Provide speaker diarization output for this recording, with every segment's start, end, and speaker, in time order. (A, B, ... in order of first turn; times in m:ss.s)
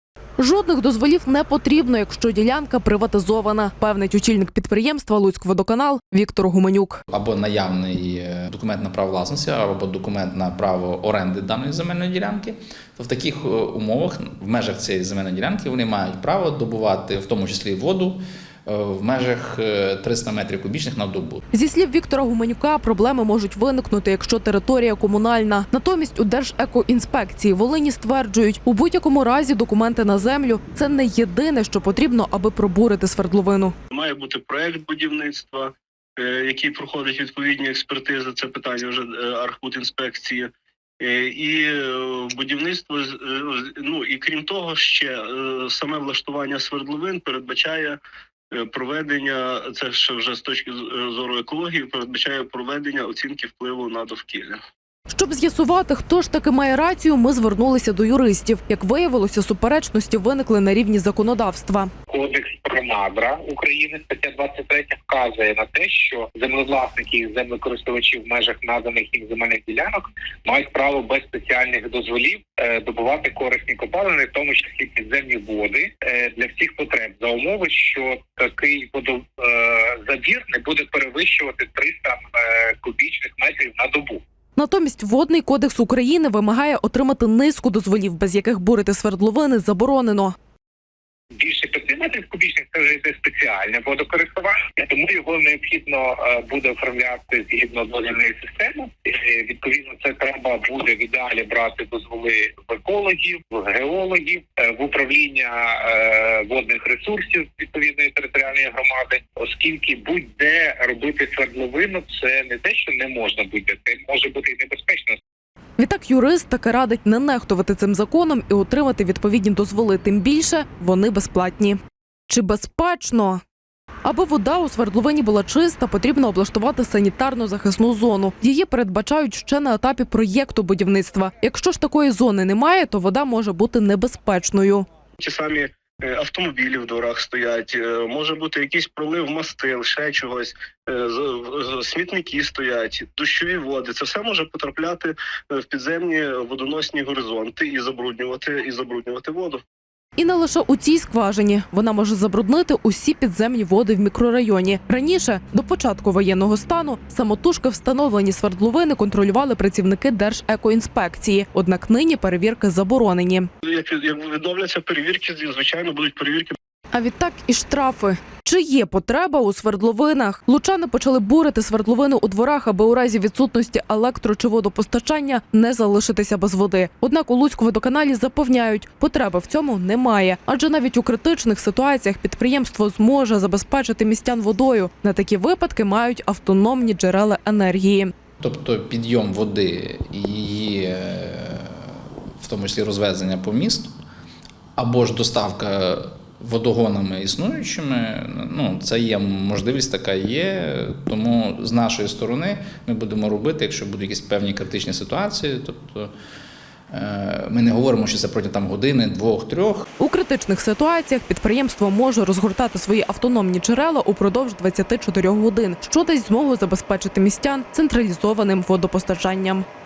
0:00.4-0:07.0 A
0:07.1-0:21.4 B
0:21.5-0:33.7 A
0:33.9-0:48.0 C
0:48.5-0:54.6 C
0:55.1-1:01.9 A
1:02.1-1:24.2 D
1:24.6-1:30.3 A
1:31.4-1:55.2 D
1:55.8-2:03.4 A
2:04.0-2:14.9 A
2:15.2-2:29.6 C
2:30.2-2:43.5 A
2:43.6-2:46.6 C
2:46.9-3:08.1 A
3:08.4-3:13.9 B
3:14.8-3:26.1 B
3:26.9-3:29.9 B
3:30.0-3:39.6 A